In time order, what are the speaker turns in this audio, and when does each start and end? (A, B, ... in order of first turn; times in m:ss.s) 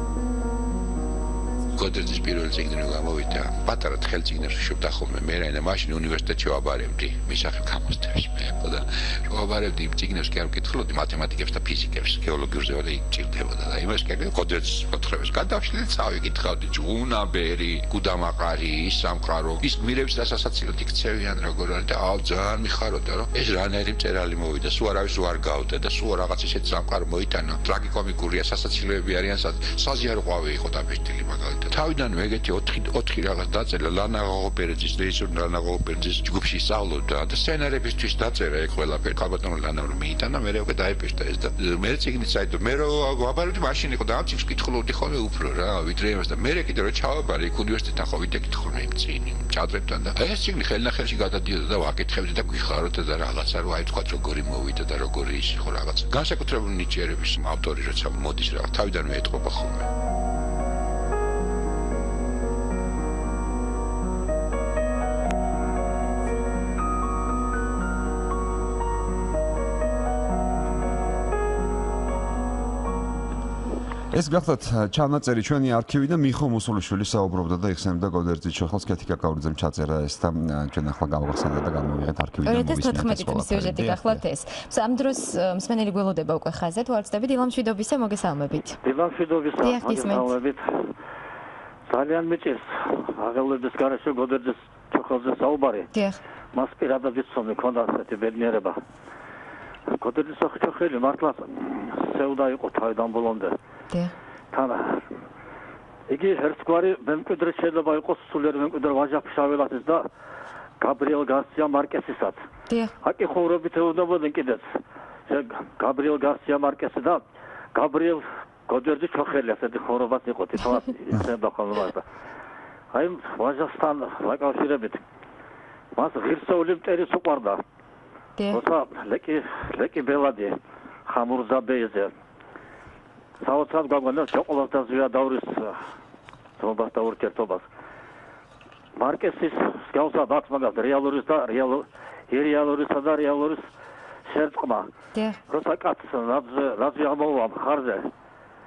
0:01.7-0:59.9 A
1:14.1-1:24.2 B
1:22.4-1:28.8 C
1:28.8-1:30.8 D
1:29.6-1:30.3 C
1:31.9-1:35.9 D
1:35.9-1:36.2 C
1:36.5-1:38.8 D
1:40.0-1:43.6 D
1:44.5-1:45.0 D
1:46.1-1:50.1 D
1:50.8-1:52.4 D
1:53.0-1:54.6 D
1:55.3-1:57.2 D
1:57.7-2:02.0 D
2:02.9-2:05.0 D
2:05.9-2:07.6 D
2:08.5-2:12.1 D
2:13.4-2:15.8 D
2:16.6-2:17.7 D
2:19.0-2:23.7 D
2:24.3-2:24.9 D
2:25.5-2:28.1 D